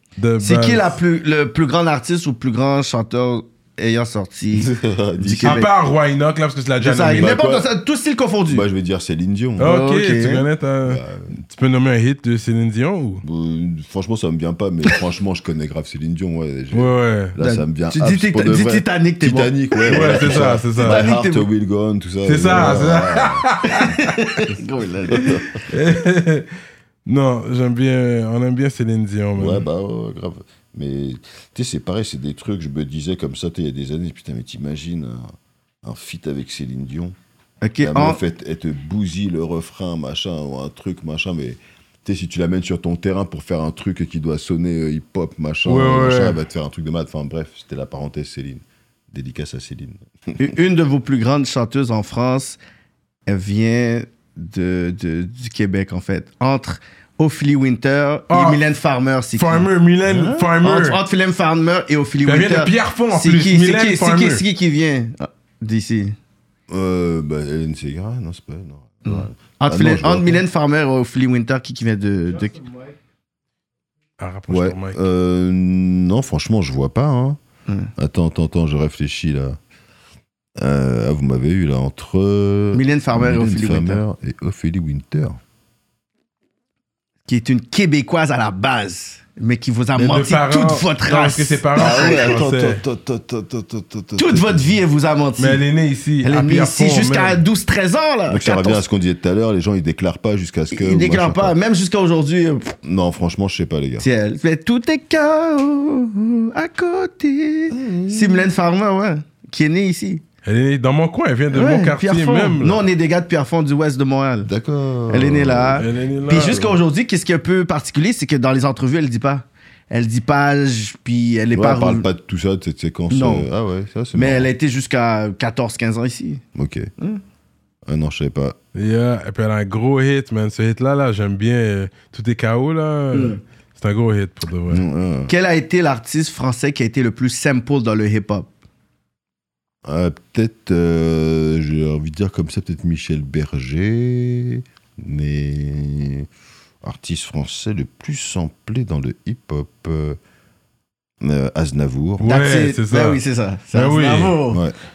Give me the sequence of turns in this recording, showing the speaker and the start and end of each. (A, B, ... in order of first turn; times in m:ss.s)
0:00.2-0:01.0 A
0:00.4-0:05.7 B
0:04.5-0:05.7 C
0:05.4-0:07.3 A
0:06.8-0:08.7 B
0:07.1-0:07.7 C
0:08.5-0:09.7 C
0:09.6-0:13.2 A
0:09.6-0:10.4 B
0:10.9-0:11.3 C
0:13.2-0:23.5 C
0:16.7-0:17.4 A
0:17.4-0:21.5 B
0:19.9-0:21.1 A
0:22.2-0:24.4 A
0:23.7-0:25.4 B
0:25.1-0:25.6 C
0:25.6-0:26.5 A
0:27.1-0:29.6 A
0:29.4-0:35.3 C
0:35.8-0:37.2 C
0:37.6-0:38.2 B
0:37.8-0:50.5 C
0:45.7-0:46.4 A
0:50.4-0:52.6 B
0:53.3-1:06.2 B
0:58.3-0:58.6 A
0:59.4-1:01.0 A
1:02.2-1:04.4 A
1:06.7-1:10.4 C
1:09.0-1:12.8 B
1:14.2-1:15.0 A
1:14.5-1:17.4 C
1:18.0-1:19.6 C
1:20.6-1:25.4 C
1:22.7-1:24.0 B
1:27.3-1:32.2 B
1:30.0-1:32.8 A
1:31.8-1:34.7 C
1:34.2-1:35.6 B
1:35.4-1:37.4 A
1:36.2-1:38.8 B
1:38.3-1:41.6 C
1:40.7-1:42.8 B
1:42.8-1:44.1 C
1:44.0-1:50.2 B
1:47.7-1:48.5 C
1:50.4-1:52.8 A
1:51.5-1:54.5 B
1:54.5-1:56.8 C
1:55.1-2:02.1 B
1:55.8-1:56.6 A
2:01.5-2:04.5 C
2:03.1-2:03.5 B
2:04.1-2:06.4 B
2:06.6-2:06.9 C
2:07.9-2:08.6 C
2:08.8-2:14.8 A
2:13.1-2:13.4 B
2:14.7-2:15.3 C
2:15.3-2:18.5 B
2:19.8-2:26.3 C
2:26.8-2:30.2 C
2:31.2-2:32.3 C
2:32.2-2:33.2 A
2:32.2-2:34.6 B
2:33.7-2:34.4 A